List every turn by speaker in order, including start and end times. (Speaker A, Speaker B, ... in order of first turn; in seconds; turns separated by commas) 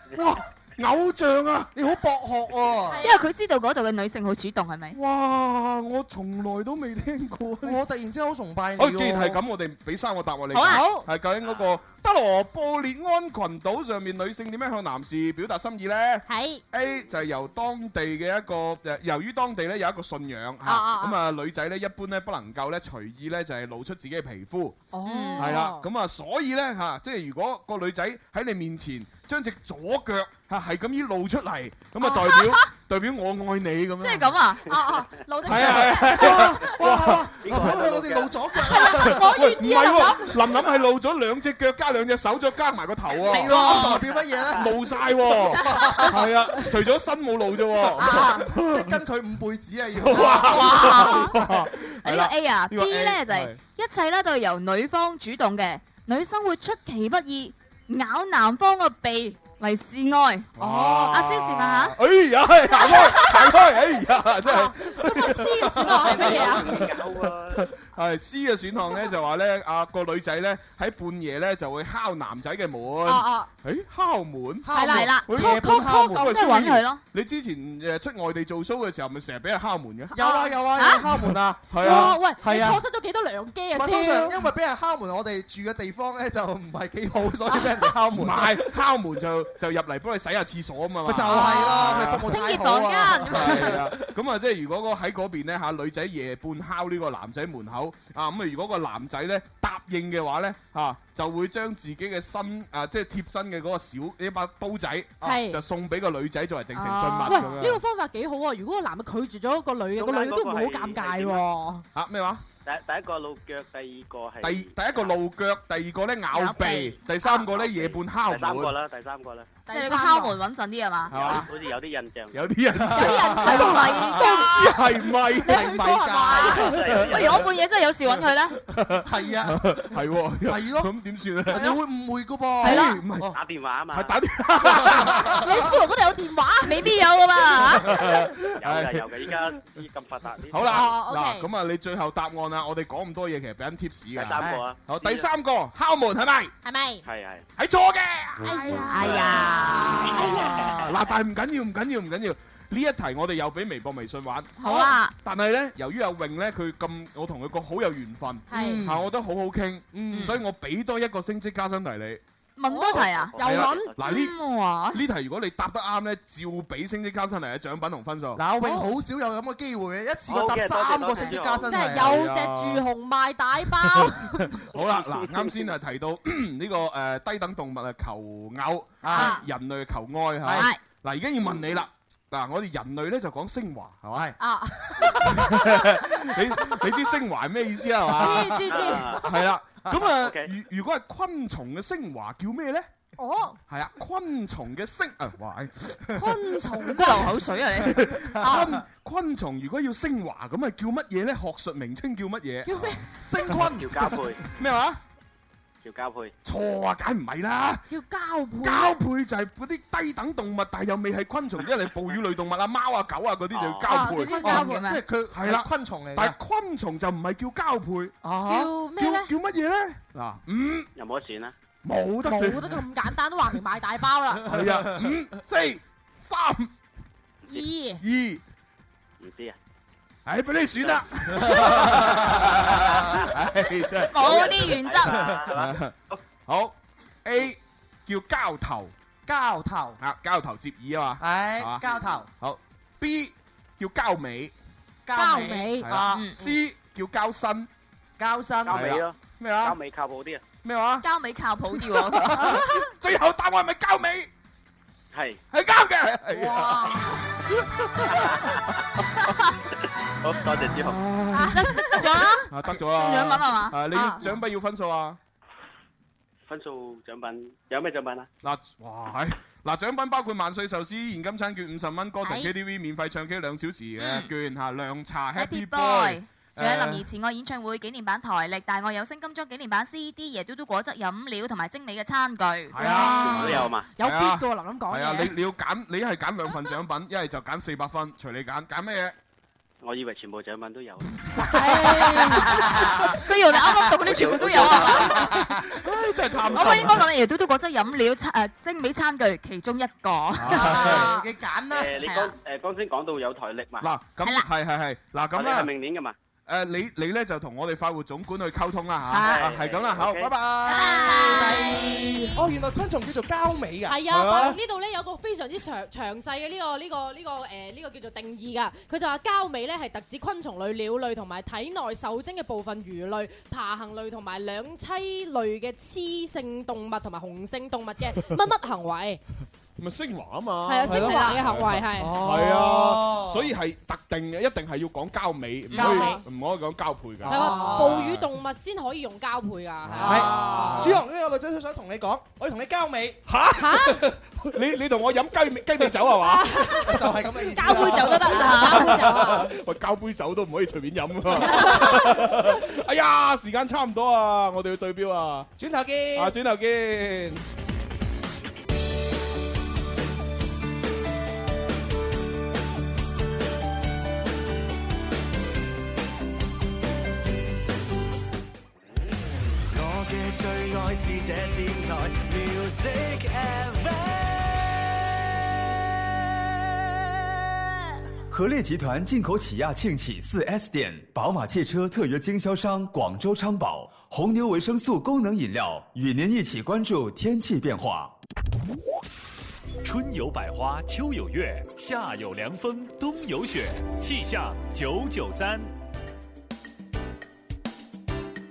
Speaker A: 0.2-1.7, Speaker B: 1.8-3.0, Speaker C: 2.9-3.2, Speaker D: 3.0-5.0, Speaker A: 4.9-7.8, Speaker B: 7.6-9.4, Speaker A: 8.8-24.8, Speaker C: 10.5-11.1, Speaker C: 16.3-16.6, Speaker C: 20.6-21.2, Speaker C: 24.9-25.9, Speaker D: 25.1-25.6, Speaker A: 25.4-34.4, Speaker D: 32.0-32.7, Speaker D: 34.0-34.6, Speaker C: 34.7-36.5, Speaker A: 35.5-37.6, Speaker B: 35.6-39.3, Speaker E: 37.4-38.4, Speaker C: 38.5-40.4, Speaker A: 39.1-43.9, Speaker D: 43.2-44.1, Speaker B: 43.4-44.8, Speaker A: 44.6-49.0, Speaker B: 45.5-46.3, Speaker D: 45.6-46.0, Speaker B: 48.0-51.7, Speaker C: 48.0-48.4, Speaker A: 50.0-53.6, Speaker D: 50.4-51.4, Speaker D: 52.0-62.0, Speaker A: 60.6-80.1, Speaker C: 62.8-63.2, Speaker D: 62.8-63.3, Speaker C: 64.4-66.7, Speaker E: 66.0-67.7, Speaker C: 73.0-73.5, Speaker B: 74.6-76.4, Speaker C: 74.7-75.2, Speaker D: 74.9-77.0, Speaker B: 80.1-82.8, Speaker C: 80.2-80.5, Speaker D: 80.8-81.1, Speaker A: 81.7-82.7, Speaker C: 81.8-84.4, Speaker B: 83.7-88.7, Speaker C: 87.5-87.8, Speaker A: 88.1-92.3, Speaker B: 91.0-94.0, Speaker C: 91.3-93.5, Speaker D: 91.5-93.5, Speaker A: 93.3-107.8, Speaker C: 105.2-105.6, Speaker D: 106.7-107.6, Speaker C: 107.3-111.8, Speaker E: 110.0-111.4, Speaker A: 112.0-112.4, Speaker E: 112.7-115.2, Speaker A: 114.4-118.7, Speaker D: 116.3-116.9, Speaker C: 116.6-116.9, Speaker E: 117.2-119.5, Speaker C: 119.7-120.4, Speaker D: 119.7-121.5, Speaker A: 121.1-121.5, Speaker E: 121.1-122.4, Speaker A: 122.3-126.0, Speaker B: 122.8-124.5, Speaker C: 122.9-124.7, Speaker D: 123.4-124.5, Speaker C: 125.4-126.7, Speaker B: 125.5-127.1, Speaker E: 126.4-127.5, Speaker D: 127.1-128.6, Speaker A: 128.7-131.7, Speaker B: 129.1-130.9, Speaker B: 131.5-133.3, Speaker D: 132.6-133.0, Speaker A: 132.7-133.3, Speaker E: 133.3-134.2, Speaker A: 133.9-135.7, Speaker B: 134.7-135.3, Speaker C: 135.4-136.8, Speaker D: 136.6-138.0, Speaker A: 137.8-139.6, Speaker E: 138.6-140.9, Speaker A: 140.5-146.5, Speaker C: 140.7-141.5, Speaker E: 144.1-145.3, Speaker C: 146.6-147.0, Speaker E: 147.1-147.5, Speaker A: 147.6-149.2, Speaker C: 148.4-150.8, Speaker D: 148.9-150.4, Speaker E: 149.1-149.5, Speaker A: 150.0-154.5, Speaker E: 150.2-150.6, Speaker D: 154.6-155.1, Speaker C: 154.6-154.9, Speaker A: 155.2-162.2, Speaker C: 158.5-158.8, Speaker B: 160.0-160.3, Speaker D: 160.1-160.4, Speaker D: 162.6-165.0, Speaker C: 162.7-163.9, Speaker E: 163.0-163.9, Speaker A: 163.4-164.3, Speaker A: 164.9-168.4, Speaker B: 168.4-172.2, Speaker C: 168.6-168.9, Speaker E: 170.3-171.8, Speaker C: 171.7-174.6, Speaker A: 171.9-172.8, Speaker A: 173.9-184.3, Speaker E: 174.8-175.5, Speaker B: 179.0-179.4, Speaker C: 179.2-179.4, Speaker B: 180.4-180.7, Speaker D: 180.5-180.8, Speaker C: 184.4-185.1, Speaker B: 184.9-185.7, Speaker A: 185.4-192.9, Speaker B: 188.2-189.3, Speaker C: 188.2-189.1, Speaker E: 188.7-189.3, Speaker E: 190.2-190.5, Speaker C: 193.2-193.6, Speaker A: 193.7-196.2, Speaker C: 196.2-197.3, Speaker D: 196.9-198.1, Speaker A: 197.9-202.9, Speaker B: 197.9-198.8, Speaker C: 202.7-203.0, Speaker B: 203.2-204.2, Speaker E: 203.7-204.4, Speaker A: 204.4-205.0, Speaker E: 205.8-206.3, Speaker A: 206.4-207.8, Speaker C: 207.9-209.0, Speaker A: 208.6-214.6, Speaker E: 213.5-214.0, Speaker C: 213.9-214.8, Speaker D: 214.4-215.0, Speaker B: 214.4-216.4, Speaker A: 215.3-218.2, Speaker B: 218.2-218.7, Speaker C: 218.5-219.3, Speaker A: 218.9-220.9, Speaker E: 221.0-221.5, Speaker A: 221.8-222.8, Speaker C: 222.2-224.5, Speaker A: 224.5-226.7, Speaker B: 224.5-225.2, Speaker C: 227.5-228.0, Speaker A: 228.0-228.4, Speaker E: 229.2-229.6, Speaker A: 230.3-234.5, Speaker B: 231.5-232.6, Speaker E: 232.3-233.3, Speaker D: 234.1-235.2, Speaker E: 234.2-236.2, Speaker A: 235.5-235.9, Speaker A: 236.5-238.9, Speaker B: 239.3-240.0, Speaker A: 240.0-244.5, Speaker B: 241.2-242.3, Speaker B: 245.1-246.3, Speaker C: 245.2-245.9, Speaker A: 245.8-247.7, Speaker D: 246.1-246.4, Speaker B: 248.2-249.0, Speaker E: 248.7-250.4, Speaker A: 248.7-249.8, Speaker A: 250.6-251.1, Speaker D: 251.0-252.6, Speaker A: 252.1-254.3, Speaker E: 255.1-255.4, Speaker A: 255.5-258.2, Speaker D: 256.5-256.9, Speaker E: 258.1-258.6, Speaker E: 260.2-261.0, Speaker A: 260.8-261.9, Speaker C: 261.3-262.3, Speaker D: 261.5-264.3, Speaker A: 262.5-265.2, Speaker C: 263.9-264.2, Speaker E: 266.5-268.3, Speaker A: 268.4-277.1, Speaker C: 272.2-272.5, Speaker D: 274.0-274.3, Speaker D: 275.4-282.8, Speaker A: 282.7-289.1, Speaker C: 282.8-285.3, Speaker E: 283.2-283.9, Speaker E: 289.8-291.2, Speaker C: 291.5-292.4, Speaker D: 291.8-295.4, Speaker B: 292.2-292.9, Speaker E: 294.0-295.4, Speaker A: 294.9-297.1, Speaker E: 296.5-296.8, Speaker D: 296.5-301.1, Speaker A: 300.4-301.1, Speaker B: 300.5-302.0, Speaker C: 300.8-301.1, Speaker E: 301.7-303.9, Speaker D: 302.1-302.3, Speaker A: 303.8-305.7, Speaker E: 305.3-306.1, Speaker A: 306.5-311.1, Speaker D: 309.1-309.5, Speaker E: 309.2-310.3, Speaker D: 310.7-312.3, Speaker C: 310.7-311.7, Speaker B: 311.2-314.5, Speaker C: 313.9-329.2, Speaker A: 314.1-314.5, Speaker A: 329.8-338.3, Speaker C: 330.6-332.1, Speaker B: 330.9-331.2, Speaker B: 332.0-333.5, Speaker C: 335.7-336.2, Speaker B: 337.2-338.0, Speaker C: 337.3-340.9, Speaker A: 339.9-341.0, Speaker B: 340.0-343.2, Speaker D: 340.1-340.7, Speaker A: 343.3-346.6, Speaker C: 343.6-344.0, Speaker C: 346.2-347.1, Speaker B: 346.8-348.8, Speaker D: 347.5-349.0, Speaker C: 347.8-349.5, Speaker A: 348.8-355.5, Speaker C: 351.4-352.2, Speaker B: 355.6-356.4, Speaker A: 356.2-357.4, Speaker F: 369.7-374.8, Speaker G: 378.3-388.1, Speaker H: 389.8-395.7